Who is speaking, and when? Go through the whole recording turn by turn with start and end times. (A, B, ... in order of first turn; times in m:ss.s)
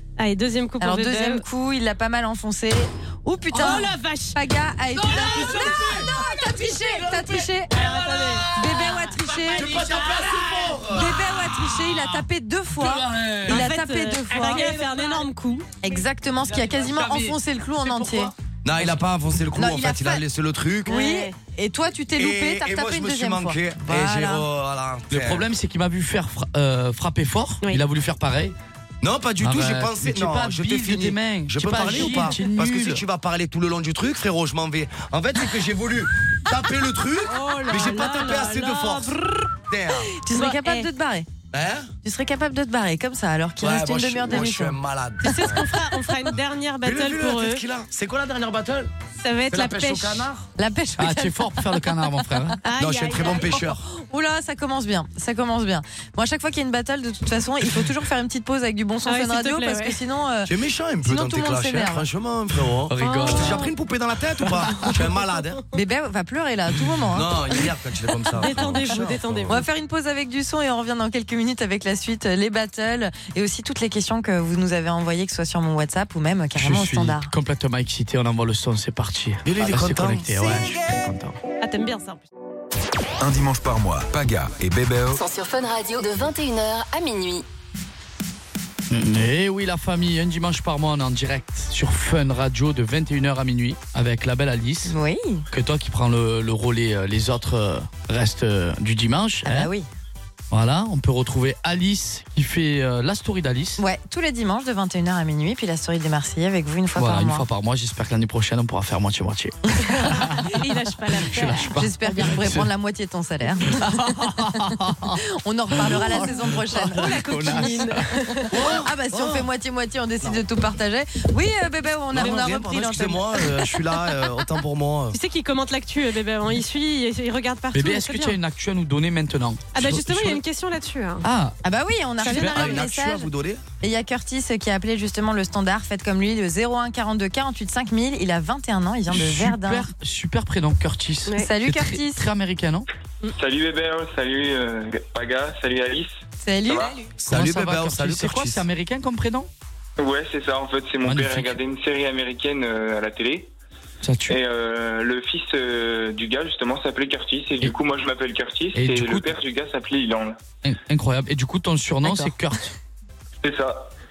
0:00.2-0:01.4 A
0:00.8-0:07.7 B
0:03.5-0:04.4 A
0:05.3-0:06.0 C
0:07.8-0:08.5 A
0:08.5-0:09.9 B
0:09.5-0:11.2 C
0:10.8-0:11.7 D
0:10.9-0:14.8 B
0:12.8-0:13.7 D
0:13.5-0:15.8 A
0:14.6-0:14.9 D
0:15.8-0:18.3 B
0:16.5-0:19.0 D
0:18.6-0:21.0 C
0:19.6-0:20.2 B
0:20.9-0:21.3 A
0:20.9-0:24.4 B
0:22.2-0:25.5 C
0:25.1-0:28.6 D
0:29.0-0:39.1 C
0:29.4-0:33.0 D
0:37.3-0:39.5 A
0:39.7-0:40.1 C
0:40.2-0:41.3 B
0:40.3-0:40.9 A
0:41.5-0:41.9 C
0:42.0-0:44.8 B
0:43.6-0:45.7 C
0:45.2-0:47.6 A
0:46.8-0:48.9 C
0:49.2-0:50.3 A
0:49.5-0:50.5 C
0:50.6-0:51.8 B
0:51.0-0:52.6 D
0:52.6-0:53.7 A
0:52.8-0:53.8 C
0:54.0-1:02.1 B
0:59.0-1:00.0 A
1:00.5-1:05.6 C
1:02.9-1:03.6 D
1:03.0-1:03.6 B
1:05.7-1:07.4 B
1:07.1-1:09.6 C
1:08.4-1:09.7 A
1:09.5-1:17.3 B
1:16.6-1:21.4 D
1:19.4-1:20.7 C
1:21.6-1:22.2 A
1:23.2-1:25.2 E
1:25.1-1:27.4 F
1:28.9-1:34.9 D
1:34.9-1:35.4 B
1:35.5-1:39.7 D
1:39.4-1:39.9 B
1:40.5-1:43.8 D
1:43.8-1:47.5 B
1:47.0-1:50.4 D
1:49.9-1:52.2 A
1:51.3-1:52.7 D
1:51.7-1:53.9 B
1:53.7-1:55.2 D
1:55.4-1:57.7 B
1:55.8-1:58.0 D
1:56.9-1:58.6 A
1:58.5-1:59.5 C
1:58.8-2:03.6 B
2:02.1-2:05.2 C
2:05.1-2:08.4 A
2:07.7-2:10.4 D
2:09.7-2:11.2 A
2:11.2-2:11.6 D
2:11.6-2:13.3 B
2:12.2-2:12.8 D
2:12.2-2:12.6 A
2:12.3-2:13.6 C
2:13.8-2:19.9 B
2:19.1-2:22.9 D
2:21.4-2:22.2 B
2:23.4-2:26.9 G
2:26.4-2:26.9 B
2:27.2-2:28.6 C
2:27.3-2:29.5 D
2:30.0-2:33.5 G
2:31.0-2:31.6 D
2:34.0-2:34.4 D
2:34.3-2:40.4 G
2:38.7-2:39.3 D
2:40.6-2:42.7 D
2:42.0-2:42.3 B
2:43.4-2:43.9 G